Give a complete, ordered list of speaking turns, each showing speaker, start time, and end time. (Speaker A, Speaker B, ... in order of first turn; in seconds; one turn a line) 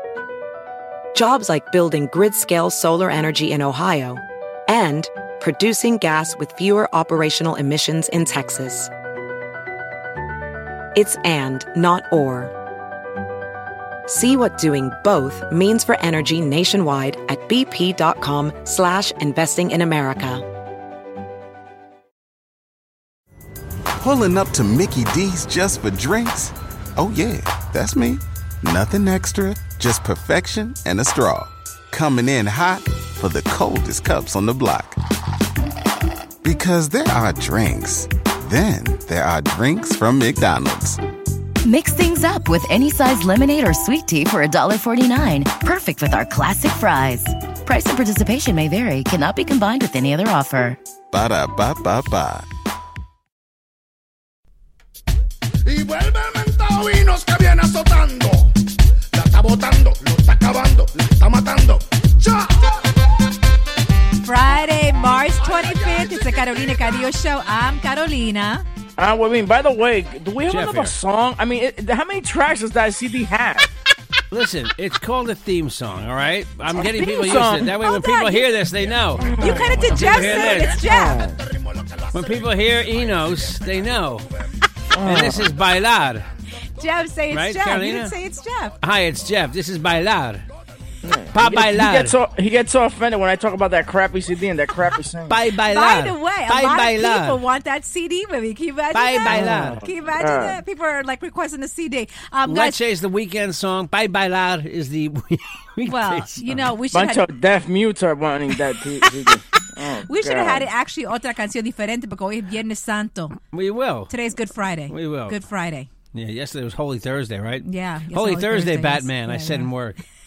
Speaker A: 1.1-8.9
Speaker A: 10.9-12.5
Speaker A: 14.1-20.4
Speaker B: 24.0-35.0
Speaker B: 36.4-41.0
Speaker C: 41.6-50.8
Speaker B: 51.1-52.5
Speaker D: 55.6-58.5
Speaker D: 59.1-62.7
Speaker E: 64.2-68.7
Speaker D: 65.4-67.1
Speaker F: 69.0-73.7
Speaker G: 70.5-71.0
Speaker G: 74.3-80.8
Speaker F: 76.8-77.8
Speaker E: 77.7-78.7
Speaker F: 79.2-79.8
Speaker D: 79.2-84.5
Speaker E: 79.4-81.2
Speaker F: 80.8-81.4
Speaker G: 82.1-84.2
Speaker F: 84.9-85.5
Speaker G: 85.1-86.3
Speaker E: 86.8-88.8
Speaker G: 87.3-88.2
Speaker G: 88.8-90.5
Speaker F: 91.0-95.4
Speaker G: 91.3-92.2
Speaker G: 95.3-97.4
Speaker E: 95.7-102.8
Speaker G: 98.9-99.8
Speaker F: 99.3-100.6
Speaker G: 102.5-106.7
Speaker E: 105.8-107.3
Speaker F: 106.9-110.7
Speaker E: 109.0-113.4
Speaker G: 113.5-114.1
Speaker E: 114.1-115.9
Speaker G: 114.9-115.4
Speaker G: 116.1-120.0
Speaker E: 117.6-119.7